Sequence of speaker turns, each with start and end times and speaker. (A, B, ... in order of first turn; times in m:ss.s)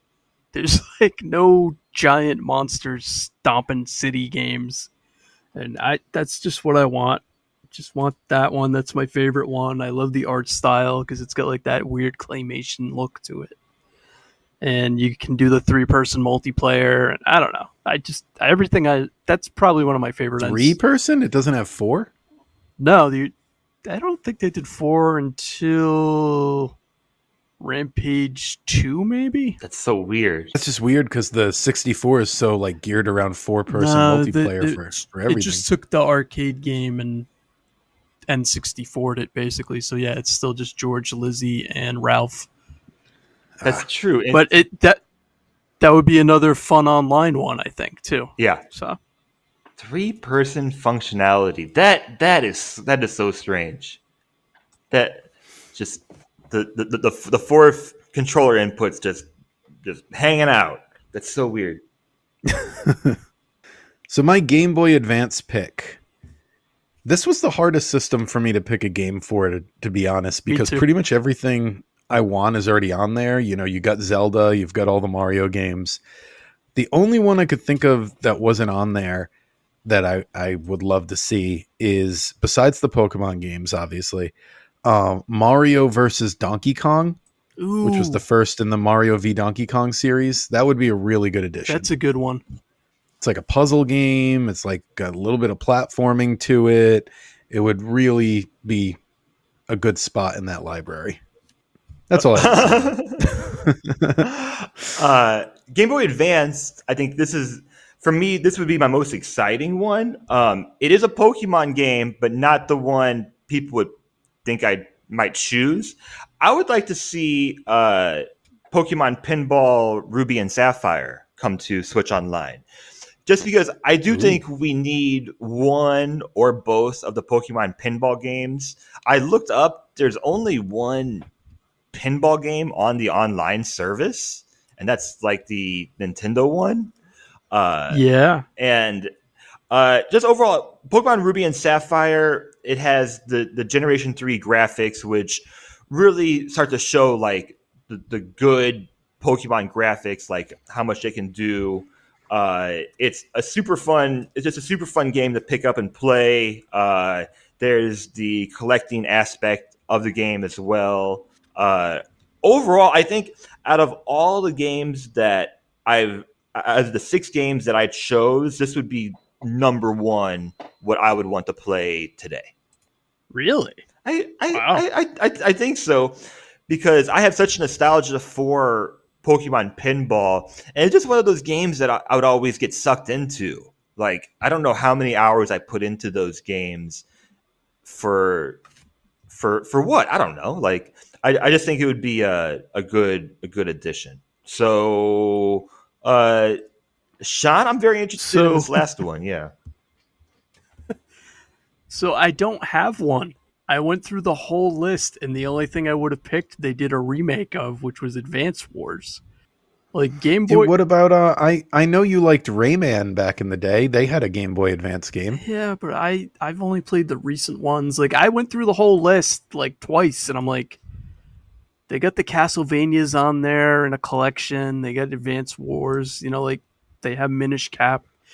0:00.5-0:04.9 A
0:05.6-0:13.6 A
0:14.6-0:20.8 A
0:20.4-0:22.1 B
0:22.8-0:23.3 A
0:23.8-0:26.7 A
0:27.6-0:29.6 A
0:29.6-0:30.6 C
0:30.6-0:35.6 B
0:33.7-0:37.3 A
0:38.3-0:42.5 A
0:43.6-0:44.5 C
0:44.3-0:45.0 A
0:45.8-0:49.0 A
0:49.8-0:54.0 C
0:54.9-0:59.3 C
0:59.8-1:01.8 C
1:02.5-1:03.2 B
1:04.1-1:06.0 B
1:07.0-1:16.0 B
1:10.5-1:10.8 A
1:16.8-1:19.3 B
1:19.8-1:24.3 B
1:24.8-1:27.2 B
1:27.6-1:28.2 A
1:27.8-1:31.9 B
1:31.7-1:32.4 A
1:33.2-1:39.0 B
1:39.7-1:41.2 B
1:42.1-1:44.3 B
1:42.1-1:43.4 C
1:44.2-2:02.6 C
2:03.2-2:11.3 C
2:04.1-2:04.4 B
2:11.9-2:16.9 C
2:17.5-2:18.0 C
2:17.9-2:18.4 A
2:18.6-2:19.1 C
2:19.7-2:52.5 C
2:53.3-2:53.8 A
2:54.0-2:56.2 C
2:54.5-2:54.8 A
2:56.7-3:07.0 C
3:07.9-3:08.6 C
3:09.3-3:16.6 C
3:17.2-3:19.5 C
3:18.2-3:18.8 A
3:21.9-3:29.2 A
3:29.9-3:30.7 A
3:30.5-3:35.4 B
3:35.4-3:40.8 A
3:41.9-3:48.1 A